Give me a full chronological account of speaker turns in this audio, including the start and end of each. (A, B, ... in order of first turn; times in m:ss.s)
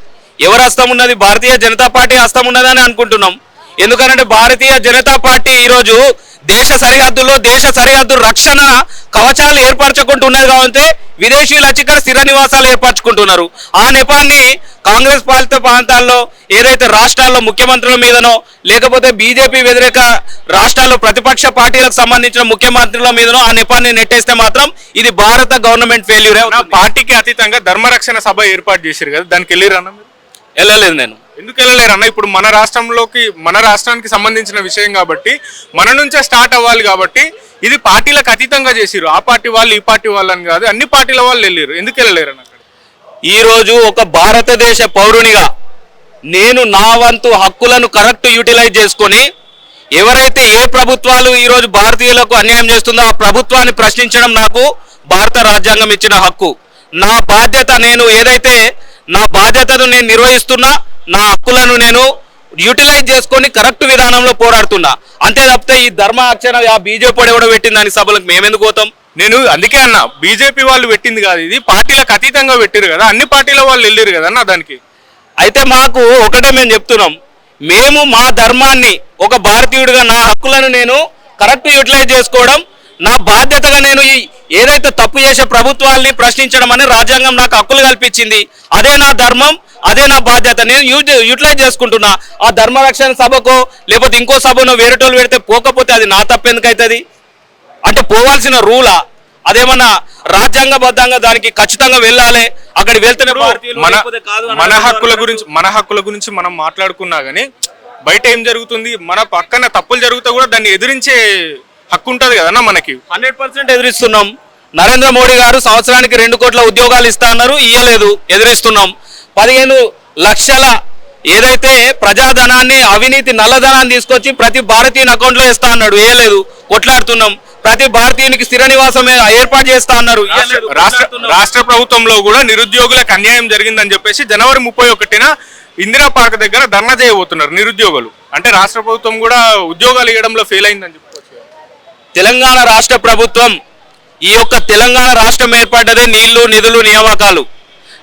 0:00.4-0:26.8 A
0:26.5-0:30.1 B
0:30.6-0:31.2 A
0:31.4-0:42.6 B
0:43.3-0:45.5 A
0:46.3-0:49.2 A
0:50.0-0:58.6 A
0:59.1-1:02.1 A
1:02.6-1:08.9 A
1:09.2-1:14.8 B
1:15.4-1:17.2 A
1:17.7-1:37.0 A
1:37.9-1:45.4 A
1:43.3-1:47.5 B
1:48.1-1:51.2 B
1:51.9-1:53.0 B
1:53.1-2:00.7 A
2:01.3-2:11.4 A
2:10.3-2:15.3 B
2:15.8-2:21.5 B
2:22.2-2:23.5 A
2:24.3-2:27.4 A